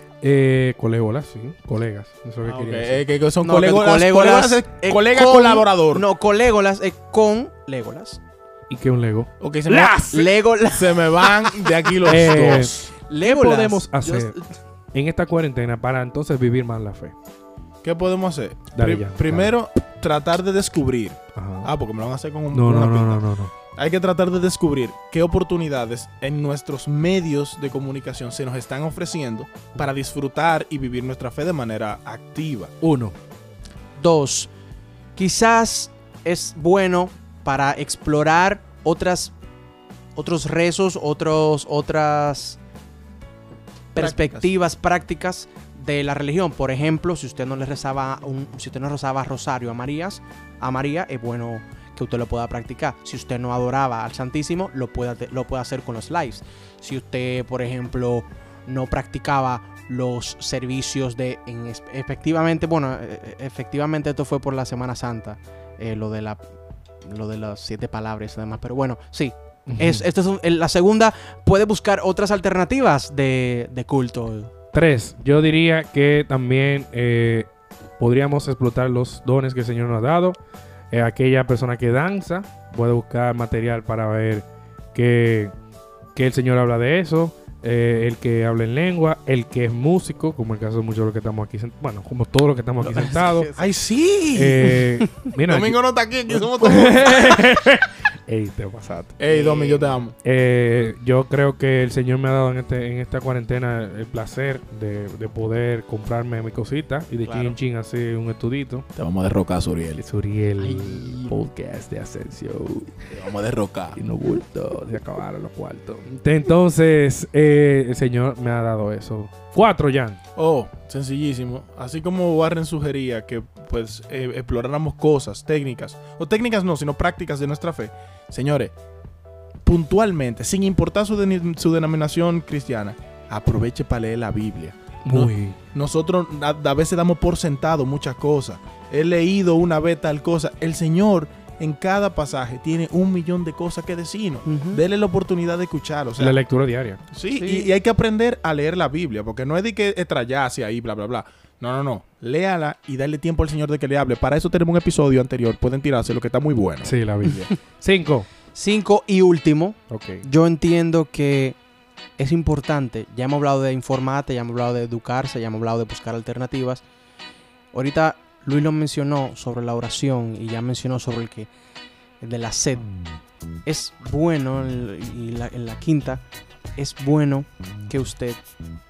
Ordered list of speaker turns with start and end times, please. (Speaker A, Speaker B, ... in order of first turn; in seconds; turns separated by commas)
Speaker A: 0.2-3.0, Speaker B: 2.4-6.0, Speaker C: 3.4-8.2, Speaker A: 8.7-10.2, Speaker B: 9.4-12.7, Speaker C: 10.1-14.5, Speaker A: 12.1-14.3, Speaker A: 14.9-17.1, Speaker B: 17.8-32.7, Speaker A: 18.7-19.5, Speaker A: 21.3-21.7, Speaker A: 22.5-23.5, Speaker A: 32.8-33.1, Speaker C: 34.0-34.5, Speaker C: 35.1-39.3, Speaker C: 40.1-42.6, Speaker C: 43.9-66.4, Speaker B: 44.0-44.5, Speaker C: 67.0-74.5, Speaker A: 69.7-70.0, Speaker A: 74.7-77.5, Speaker A: 78.0-80.4, Speaker A: 80.9-85.5, Speaker A: 86.1-93.5, Speaker C: 92.8-93.7, Speaker B: 93.5-94.8, Speaker A: 94.3-99.2, Speaker B: 95.5-97.5, Speaker B: 99.2-100.1, Speaker C: 99.3-99.9, Speaker A: 100.2-108.8, Speaker B: 109.0-110.0, Speaker A: 110.0-113.1, Speaker C: 110.6-111.3, Speaker B: 113.1-114.0, Speaker A: 113.9-120.2, Speaker B: 120.3-128.7, Speaker B: 129.6-146.4, Speaker A: 135.0-135.6, Speaker C: 144.4-144.8, Speaker A: 146.2-147.0, Speaker B: 147.1-156.9, Speaker C: 147.3-147.7, Speaker A: 156.8-158.3, Speaker C: 158.5-161.6, Speaker A: 159.9-160.2, Speaker C: 162.2-166.8, Speaker C: 167.7-171.5, Speaker C: 172.2-172.9, Speaker C: 173.6-176.2, Speaker C: 176.8-178.4